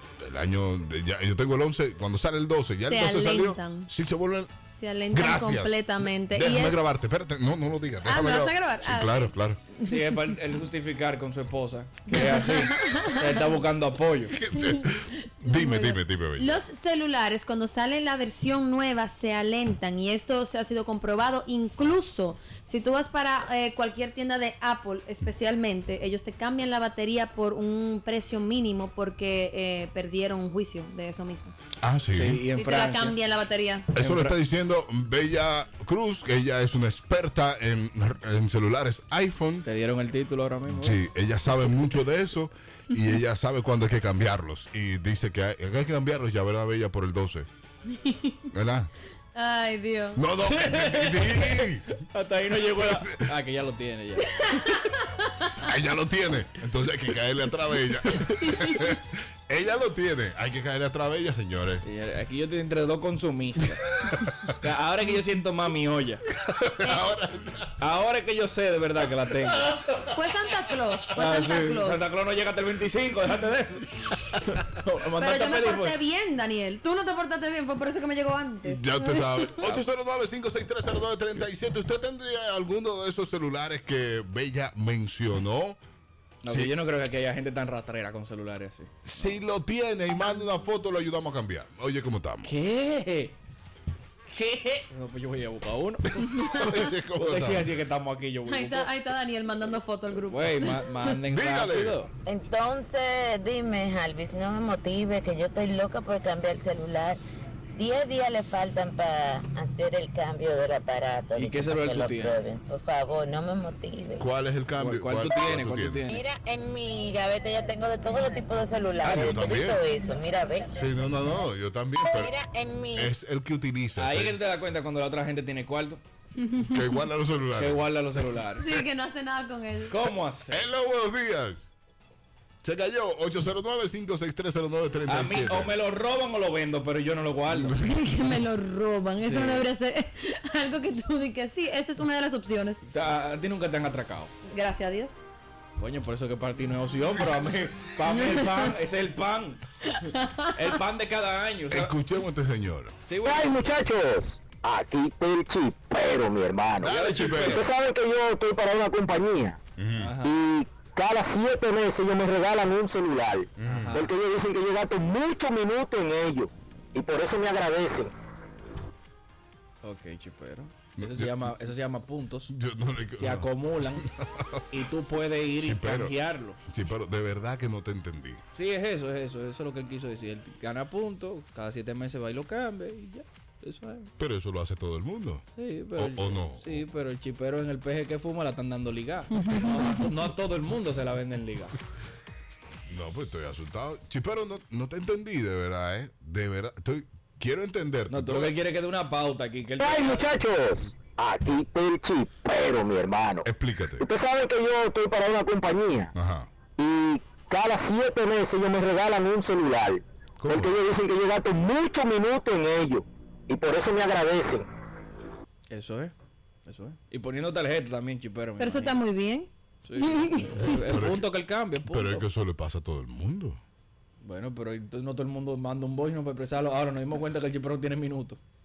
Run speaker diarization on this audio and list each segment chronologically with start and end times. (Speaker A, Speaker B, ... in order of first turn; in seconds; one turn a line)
Speaker A: 0.2-4.5
Speaker B: 2.9-3.9
Speaker B: 4.7-6.8
Speaker A: 5.1-9.6
Speaker B: 8.1-10.3
Speaker C: 9.8-14.3
Speaker B: 12.1-13.5
Speaker A: 14.3-16.6
Speaker B: 14.5-31.5
Speaker A: 31.8-32.4
Speaker C: 32.1-33.2
Speaker B: 32.5-33.9
Speaker A: 34.0-39.7
Speaker C: 34.0-34.4
Speaker C: 39.6-41.0
Speaker A: 40.7-47.5
Speaker B: 47.9-48.5
Speaker A: 48.5-48.9
Speaker B: 49.3-50.2
Speaker A: 50.2-51.9
Speaker C: 50.4-54.7
Speaker A: 52.7-53.3
Speaker B: 54.2-55.7
Speaker A: 55.6-61.8
Speaker B: 58.5-58.9
Speaker C: 61.8-63.8
Speaker A: 63.9-64.5
Speaker C: 64.6-66.2
Speaker A: 66.4-67.7
Speaker B: 66.8-67.1
Speaker C: 67.8-69.8
Speaker A: 69.7-70.2
Speaker B: 70.1-72.1
Speaker C: 71.2-76.0
Speaker B: 75.2-79.7
Speaker A: 78.7-85.8
Speaker C: 86.4-89.4
Speaker A: 86.5-86.8
Speaker A: 89.1-92.5
Speaker C: 92.4-93.4
Speaker C: 94.3-96.3
Speaker A: 96.2-97.7
Speaker B: 96.2-97.0
Speaker C: 97.2-98.9
Speaker B: 98.5-101.2
Speaker C: 100.2-102.1
Speaker A: 101.3-102.0
Speaker D: 102.2-107.2
Speaker D: 107.8-114.3
Speaker C: 111.3-112.4
Speaker A: 114.2-116.1
Speaker C: 114.8-116.2
Speaker D: 116.1-120.9
Speaker A: 119.0-119.8
Speaker A: 120.7-122.3
Speaker D: 122.0-123.1
Speaker A: 123.0-124.4
Speaker C: 124.0-126.0
Speaker B: 126.4-127.1
Speaker A: 126.7-128.0
Speaker C: 127.6-128.7
Speaker B: 128.6-130.0
Speaker C: 129.9-130.7
Speaker A: 130.5-131.6
Speaker A: 132.6-135.7
Speaker C: 135.1-137.8
Speaker A: 137.5-138.4
Speaker B: 137.7-142.8
Speaker C: 139.2-139.7
Speaker C: 142.9-144.3
Speaker B: 144.5-145.2
Speaker C: 145.8-149.9
Speaker B: 148.1-148.7
Speaker B: 149.9-150.7
Speaker C: 150.5-151.9
Speaker A: 151.7-152.9
Speaker C: 153.1-153.7
Speaker E: 153.2-159.6
Speaker A: 156.8-157.7
Speaker C: 156.8-157.7
Speaker A: 159.8-160.1
Speaker C: 160.0-160.3
Speaker E: 160.2-168.1
Speaker A: 163.6-163.9
Speaker C: 163.7-164.1
Speaker C: 169.8-172.5
Speaker A: 171.0-171.4
Speaker A: 172.5-174.7
Speaker C: 173.1-174.1
Speaker C: 174.7-176.6
Speaker A: 175.6-178.4
Speaker C: 178.6-184.1
Speaker A: 184.2-185.4
Speaker C: 185.5-191.8
Speaker A: 186.0-186.9
Speaker B: 189.4-190.0
Speaker A: 192.9-198.6
Speaker C: 198.1-200.4
Speaker E: 199.8-203.5
Speaker A: 203.4-204.1
Speaker E: 204.0-206.1
Speaker A: 206.1-206.5
Speaker E: 206.8-214.7
Speaker A: 210.4-210.7
Speaker C: 215.7-216.1
Speaker C: 216.7-219.0
Speaker B: 218.6-220.7
Speaker C: 219.8-222.3
Speaker A: 220.9-221.3
Speaker A: 221.8-223.6
Speaker C: 224.2-228.4